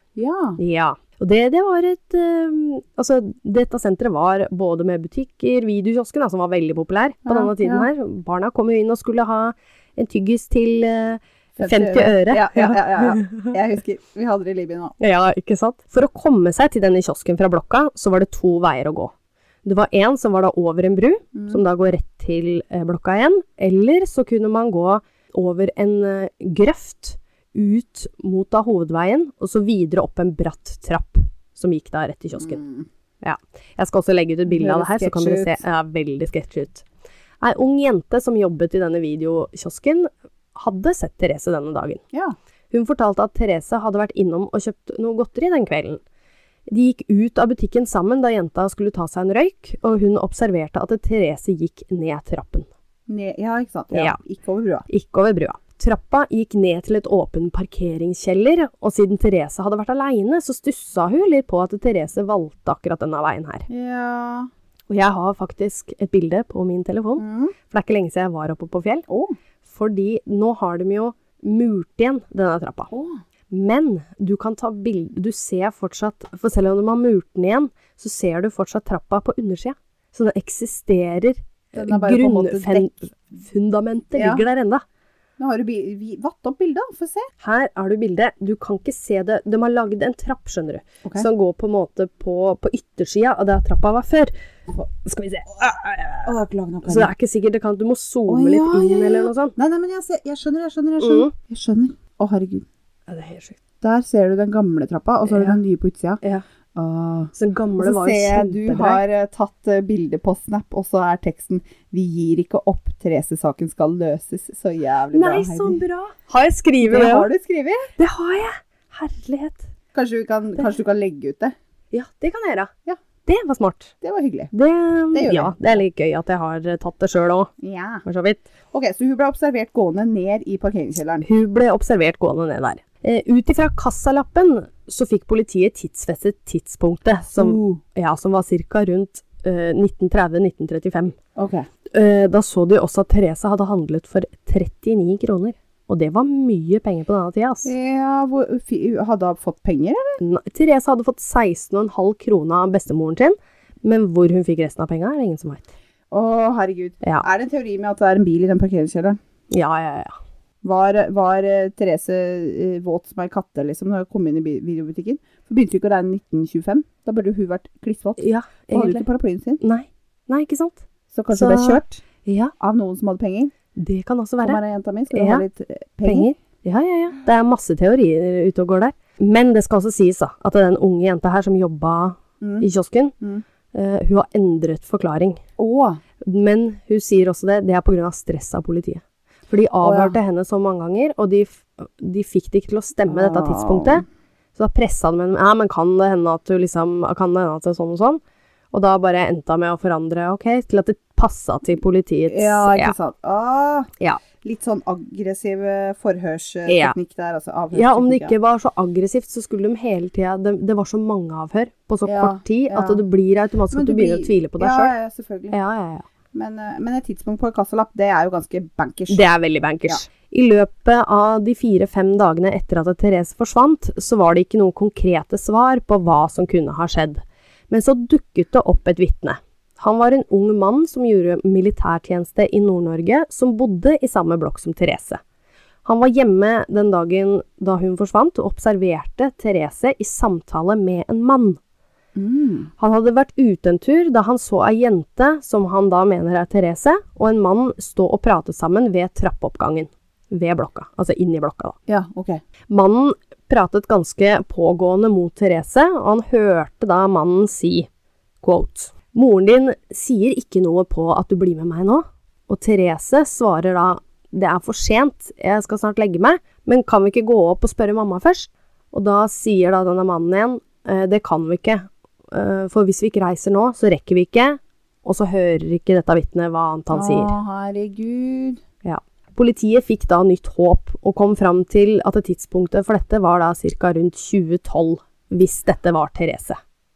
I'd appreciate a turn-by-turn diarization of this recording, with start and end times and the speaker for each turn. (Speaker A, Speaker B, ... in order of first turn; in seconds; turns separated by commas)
Speaker A: 0.1-0.6, Speaker B: 0.6-13.5, Speaker A: 7.2-7.9, Speaker A: 11.6-14.9, Speaker B: 15.0-19.1, Speaker B: 19.6-32.6, Speaker A: 21.3-21.6, Speaker A: 32.4-32.9, Speaker B: 33.2-36.8, Speaker A: 34.5-35.6, Speaker B: 37.4-42.0, Speaker B: 42.7-46.0, Speaker B: 46.7-52.7, Speaker A: 53.1-54.9, Speaker B: 54.9-63.7, Speaker A: 63.7-64.5, Speaker B: 64.9-69.0, Speaker A: 67.2-67.5, Speaker A: 69.1-69.3, Speaker B: 69.6-72.9, Speaker A: 72.9-73.2, Speaker B: 73.5-84.8, Speaker A: 81.7-82.9, Speaker A: 84.2-84.4, Speaker A: 85.4-87.3, Speaker B: 87.4-94.3, Speaker B: 94.9-99.5, Speaker A: 96.2-97.1, Speaker A: 98.3-102.7, Speaker B: 101.0-101.3, Speaker B: 103.1-103.6, Speaker A: 103.8-106.2, Speaker B: 105.3-105.6, Speaker A: 106.7-115.8, Speaker B: 107.3-109.0, Speaker B: 115.1-117.3, Speaker A: 116.8-117.9, Speaker B: 118.0-119.7, Speaker A: 119.9-121.5, Speaker B: 121.9-122.7, Speaker B: 123.2-123.9, Speaker A: 124.0-124.5, Speaker B: 124.5-127.5, Speaker A: 125.1-125.6, Speaker A: 127.6-128.0, Speaker B: 128.0-128.5, Speaker A: 128.7-131.2, Speaker B: 131.2-141.2, Speaker A: 137.3-137.8, Speaker A: 141.3-141.7, Speaker B: 141.9-147.7, Speaker A: 147.6-150.2, Speaker B: 150.2-155.7, Speaker A: 156.1-159.2, Speaker B: 159.5-160.2, Speaker A: 160.6-169.6, Speaker B: 168.2-169.0, Speaker B: 169.6-172.5, Speaker A: 171.1-172.0, Speaker A: 172.6-173.5, Speaker B: 173.8-174.6, Speaker A: 174.4-176.3, Speaker B: 175.1-175.4, Speaker B: 176.1-183.1, Speaker A: 182.4-182.7, Speaker B: 183.7-185.4, Speaker A: 185.6-186.0, Speaker B: 186.2-194.0, Speaker A: 189.8-190.2, Speaker A: 193.1-194.0, Speaker B: 194.5-198.2, Speaker B: 198.7-202.9, Speaker A: 202.3-203.9, Speaker A: 204.4-208.3, Speaker B: 206.7-206.9, Speaker B: 207.7-214.9, Speaker A: 212.1-213.0, Speaker A: 213.7-215.6, Speaker B: 215.5-216.1, Speaker A: 216.3-219.3, Speaker B: 219.1-235.2, Speaker B: 235.8-241.6, Speaker A: 242.2-242.7, Speaker B: 242.8-251.8, Speaker A: 251.9-252.4, Speaker B: 252.7-257.9, Speaker B: 258.4-277.3, Speaker A: 276.9-278.6, Speaker B: 278.8-286.6